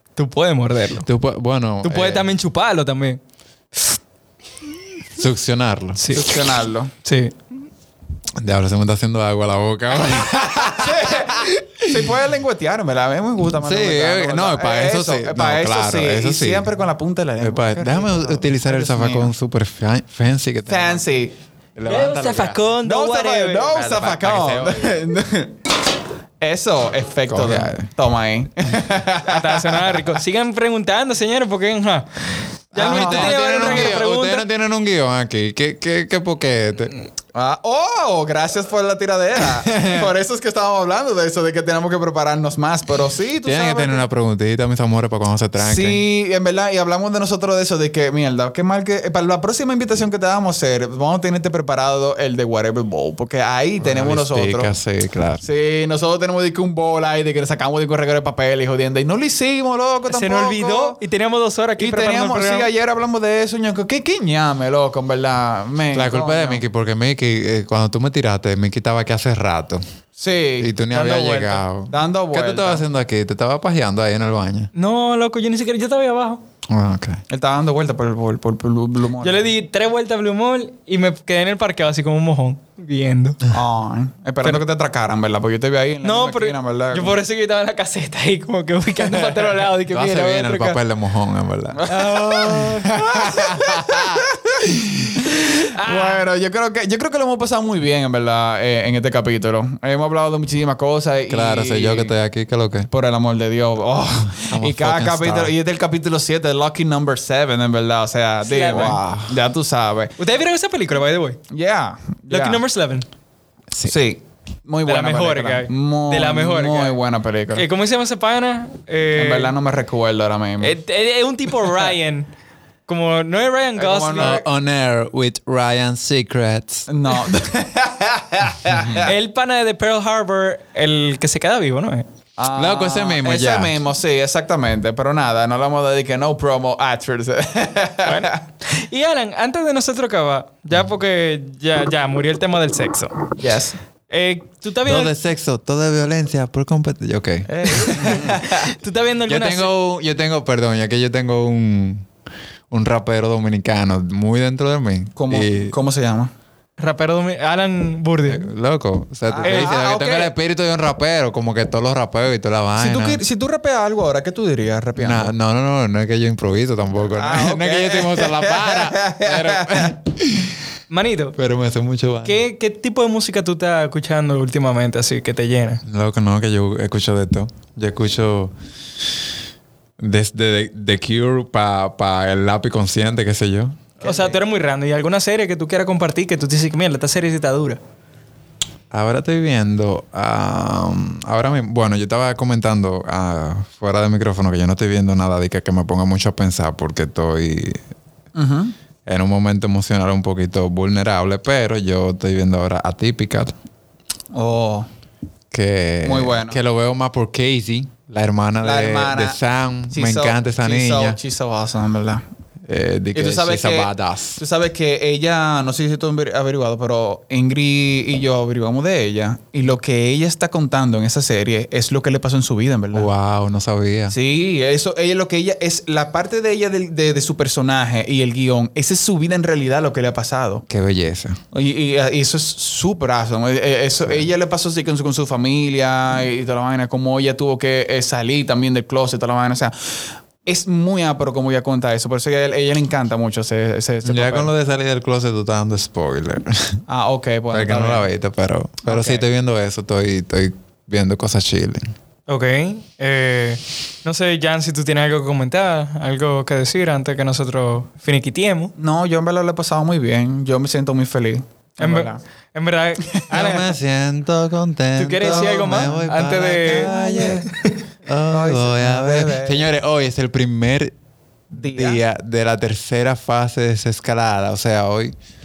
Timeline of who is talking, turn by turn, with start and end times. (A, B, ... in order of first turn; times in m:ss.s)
0:00.2-0:01.1 A
0:01.0-0:02.3 B
0:01.8-0:03.2 A
0:05.1-0:06.0 B
0:06.0-0:06.3 A
0:06.1-0:06.9 C
0:07.0-0:07.3 A
0:08.4-0:12.1 B
0:10.5-0:19.3 C
0:13.6-0:16.7 B
0:17.4-0:21.0 B
0:20.7-0:21.3 C
0:21.8-0:22.6 B
0:21.8-0:23.8 A
0:22.8-0:25.6 C
0:23.8-0:25.0 B
0:26.4-0:30.0 C
0:27.3-0:27.8 B
0:29.3-0:32.1 A
0:32.7-0:34.4 A
0:32.7-0:36.9 B
0:32.8-0:34.0 C
0:37.3-0:44.0 C
0:39.5-0:40.1 B
0:43.4-0:46.0 B
0:45.6-0:54.7 C
0:53.8-0:55.4 B
0:55.4-1:01.0 C
1:00.1-1:02.7 A
1:01.8-1:06.6 C
1:05.9-1:09.8 B
1:10.2-1:12.8 C
1:10.6-1:14.7 B
1:14.7-1:16.4 A
1:16.7-1:17.2 B
1:17.3-1:19.4 C
1:19.2-1:23.4 A
1:23.5-1:27.2 C
1:26.0-1:30.8 A
1:29.8-1:35.1 B
1:31.7-1:34.6 C
1:31.9-1:32.9 A
1:35.4-1:36.2 A
1:35.7-1:42.1 C
1:41.3-1:42.9 B
1:42.9-1:50.1 C
1:44.3-1:45.5 B
1:48.4-1:49.0 A
1:48.7-1:49.4 B
1:50.2-1:51.4 A
1:51.5-1:52.6 C
1:52.3-1:53.0 A
1:53.8-1:57.6 C
1:54.8-1:57.0 A
1:57.5-1:59.5 A
1:59.1-2:00.7 C
2:00.6-2:02.3 A
2:02.9-2:04.4 A
2:03.8-2:04.4 C
2:04.1-2:06.9 B
2:06.9-2:09.1 C
2:08.7-2:09.0 B
2:09.0-2:12.0 A
2:12.4-2:18.4 C
2:12.5-2:13.8 B
2:18.0-2:23.3 A
2:23.4-2:23.8 C
2:24.1-2:25.1 A
2:24.9-2:28.3 B
2:27.5-2:28.6 C
2:28.0-2:29.7 A
2:29.3-2:32.0 B
2:32.7-2:35.7 B
2:35.2-2:36.3 C
2:36.8-2:38.5 A
2:38.3-2:43.2 B
2:39.3-2:40.3 C
2:39.4-2:39.8 A
2:42.8-2:45.3 C
2:45.0-2:50.6 B
2:47.1-2:49.9 C
2:50.9-2:51.4 A
2:51.4-2:52.4 B
2:52.2-2:55.8 A
2:55.8-2:58.5 B
3:00.0-3:03.9 B
3:04.0-3:04.4 C
3:04.0-3:07.8 A
3:08.9-3:17.8 B
3:18.3-3:18.7 C
3:19.0-3:23.5 B
3:24.3-3:24.9 C
3:25.5-3:31.2 B
3:26.0-3:26.6 C
3:28.6-3:29.4 C
3:29.9-3:32.2 C
3:32.7-3:34.4 B
3:33.1-3:43.1 C
3:42.9-3:44.2 B
3:44.1-3:50.6 C
3:50.7-3:51.4 B
3:51.5-4:04.5 C
4:04.0-4:06.8 B
4:06.9-4:08.1 C
4:07.5-4:11.9 B
4:08.8-4:09.2 C
4:12.3-4:18.7 A
4:18.8-4:22.2 C
4:21.8-4:23.7 A
4:23.3-4:27.5 B
4:25.0-4:26.9 A
4:25.2-4:27.5 C
4:27.4-4:27.7 A
4:28.0-4:30.9 B
4:28.2-4:29.6 C
4:31.5-4:32.0 C
4:31.5-4:35.1 B